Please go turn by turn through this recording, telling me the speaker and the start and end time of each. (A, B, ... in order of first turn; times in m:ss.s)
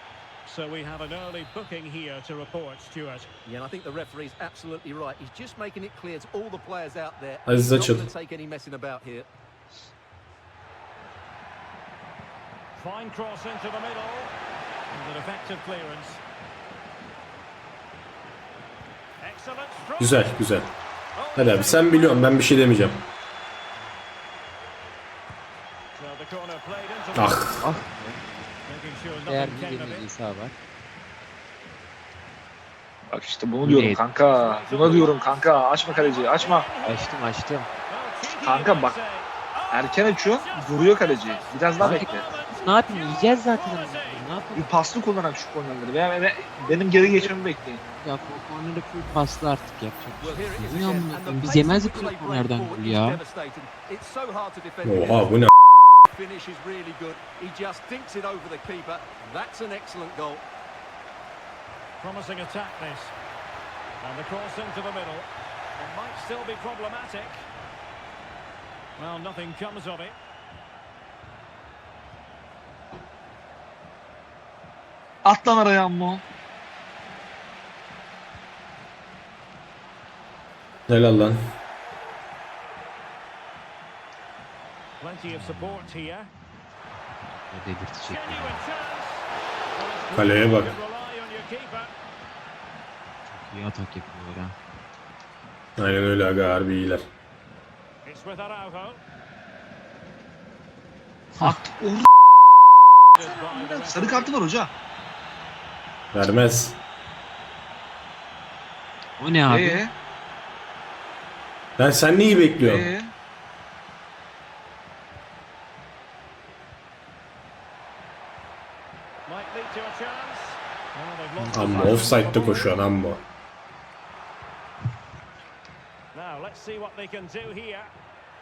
0:00.5-0:03.3 A
0:03.5-0:09.3 B
0:07.5-0:08.1 C
0:12.8-0:14.3 A
0:14.9-0:16.2 A
0:19.2-0:20.3 A
0:20.0-0:20.7 C
0:21.2-0:22.4 A
0:21.4-0:23.0 C
0:26.0-0:27.5 A
0:27.2-0:27.7 C
0:27.6-0:28.2 D
0:28.7-0:30.1 A
0:29.2-0:30.6 D
0:33.1-0:36.7 E
0:33.6-0:34.0 D
0:34.3-0:37.1 A
0:36.8-0:37.7 D
0:37.9-0:44.2 A
0:38.4-0:39.0 E
0:39.7-0:42.3 E
0:41.8-0:44.6 D
0:44.6-0:47.8 E
0:48.0-0:53.2 D
0:50.2-0:55.4 B
0:54.8-0:55.5 C
0:56.1-1:00.4 B
1:02.0-1:03.1 A
1:04.0-1:05.3 A
1:05.8-1:07.4 A
1:09.0-1:10.2 A
1:15.2-1:16.2 E
1:20.9-1:21.4 C
1:25.0-1:26.3 A
1:25.3-1:25.9 D
1:27.5-1:28.7 D
1:28.0-1:31.9 A
1:30.1-1:30.8 C
1:33.3-1:34.6 D
1:35.8-1:37.0 C
1:38.0-1:39.0 A
1:41.4-1:41.6 D
1:41.4-1:42.1 E
1:43.2-1:44.3 A
1:43.2-1:44.7 E
1:46.1-1:46.8 C
1:49.2-1:49.8 D
1:49.5-1:49.9 E
1:51.8-1:52.9 C
1:52.6-1:53.1 E
1:59.3-2:02.8 A
2:01.4-2:02.1 D
2:01.5-2:03.2 C
2:06.1-2:07.9 A